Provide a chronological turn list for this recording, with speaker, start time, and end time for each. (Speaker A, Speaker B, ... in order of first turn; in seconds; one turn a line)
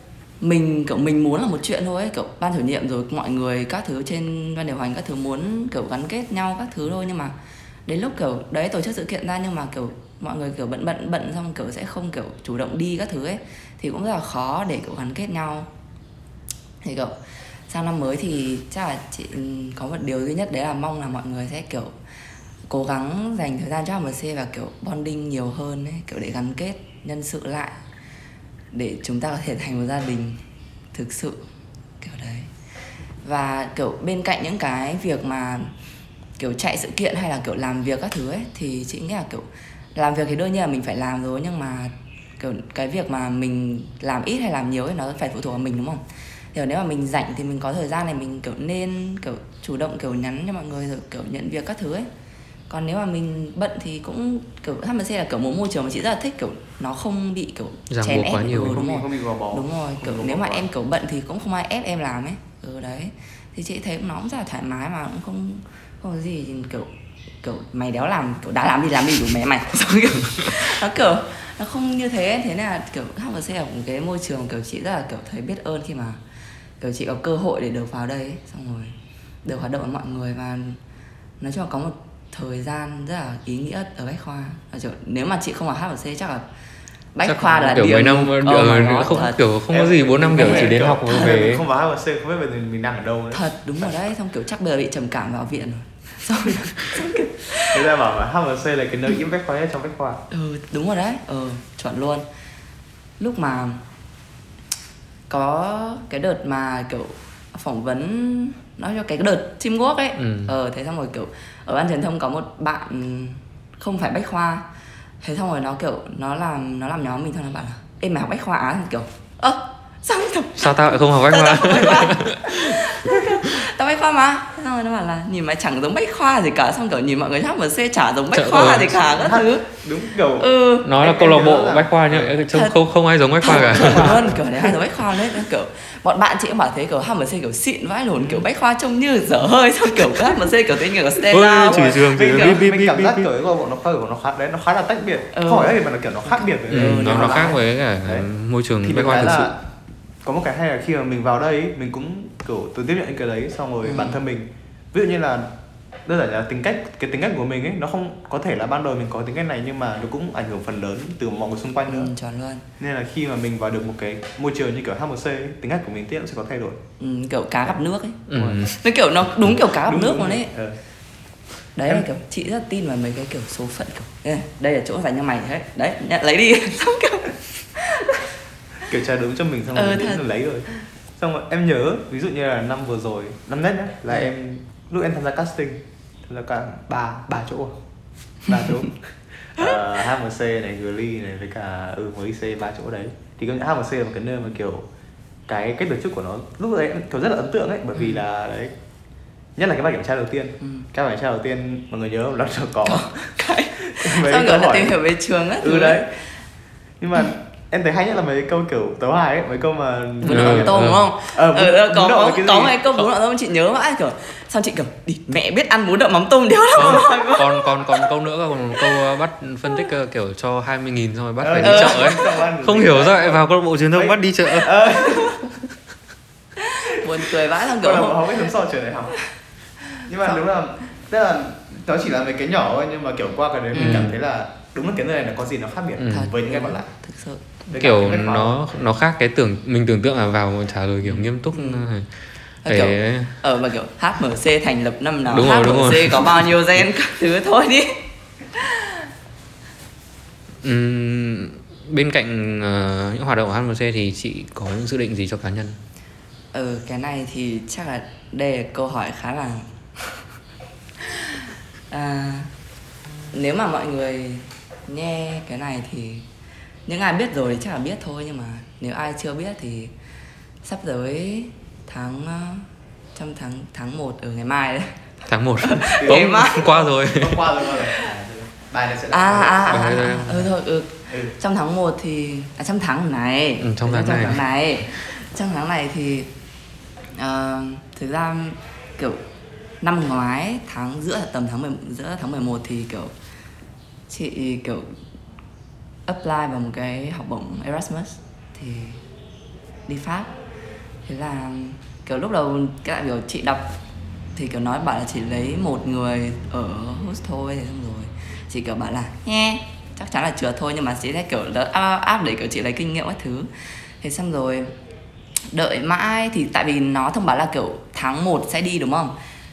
Speaker A: 0.4-7.3
Speaker A: 7.9-15.7
Speaker A: 16.8-17.1
Speaker A: 17.7-21.9
Speaker A: 22.7-27.8
Speaker A: 28.7-30.4
Speaker A: 30.9-31.4
Speaker A: 32.0-32.5
Speaker A: 33.2-35.7
Speaker A: 36.4-46.0
Speaker A: 46.5-52.1
Speaker A: 52.7-66.9
Speaker B: 57.9-58.8
Speaker C: 58.5-60.7
Speaker A: 67.4-76.2
Speaker A: 76.8-80.8
Speaker A: 81.4-86.5
Speaker A: 87.1-89.4
Speaker B: 87.2-91.6
Speaker C: 89.7-93.9
Speaker A: 90.3-91.5
Speaker A: 93.3-97.8
Speaker C: 97.6-100.2
Speaker A: 100.3-102.2
Speaker A: 103.2-103.8
Speaker A: 105.3-114.7
Speaker B: 110.2-110.5
Speaker A: 115.2-129.7
Speaker B: 120.6-123.2
Speaker B: 128.3-129.1
Speaker C: 129.2-132.3
Speaker A: 130.4-130.9
Speaker B: 130.8-134.2
Speaker A: 132.5-132.8
Speaker A: 133.4-142.6
Speaker B: 141.3-143.3
Speaker C: 141.6-148.3
Speaker A: 145.3-147.6
Speaker B: 146.7-149.5
Speaker C: 148.8-149.6
Speaker C: 150.2-155.5
Speaker A: 153.8-154.2
Speaker C: 156.1-162.1
Speaker A: 161.9-162.6
Speaker C: 162.8-166.8
Speaker A: 167.0-170.5
Speaker B: 168.3-168.7
Speaker C: 168.3-168.6
Speaker C: 169.7-170.8
Speaker A: 171.8-178.2
Speaker C: 178.9-180.7
Speaker A: 179.8-180.2
Speaker C: 181.2-187.8
Speaker C: 188.4-194.9
Speaker C: 195.5-198.7
Speaker C: 199.6-203.1
Speaker A: 200.6-200.9
Speaker A: 202.8-206.0
Speaker C: 203.8-205.0
Speaker C: 205.6-206.1
Speaker C: 207.0-212.8
Speaker A: 210.2-218.0
Speaker B: 210.3-211.1
Speaker B: 216.8-224.8
Speaker C: 216.8-217.3
Speaker C: 221.4-225.4
Speaker A: 221.6-222.2
Speaker A: 226.6-228.2
Speaker C: 227.7-229.2
Speaker A: 230.0-230.4
Speaker C: 230.1-236.9
Speaker A: 233.7-234.1
Speaker B: 233.8-234.1
Speaker B: 236.0-236.3
Speaker A: 236.1-237.5
Speaker C: 237.7-238.7
Speaker B: 237.7-242.1
Speaker A: 241.0-241.9
Speaker A: 242.6-248.0
Speaker B: 242.7-243.3
Speaker B: 245.3-246.5
Speaker A: 248.6-249.0
Speaker B: 250.6-255.8
Speaker A: 256.5-260.2
Speaker A: 261.0-262.5
Speaker A: 263.3-266.2
Speaker A: 266.9-269.9
Speaker A: 270.6-275.0
Speaker B: 275.3-277.4
Speaker A: 275.6-276.7
Speaker C: 276.0-280.0
Speaker A: 279.1-286.3
Speaker B: 279.7-280.5
Speaker B: 283.6-284.4
Speaker A: 287.1-289.2
Speaker A: 289.8-293.1
Speaker A: 294.1-294.9
Speaker A: 296.1-299.0
Speaker A: 299.9-300.3
Speaker A: 301.1-303.7
Speaker A: 304.4-313.5
Speaker A: 314.0-314.7
Speaker A: 315.5-319.1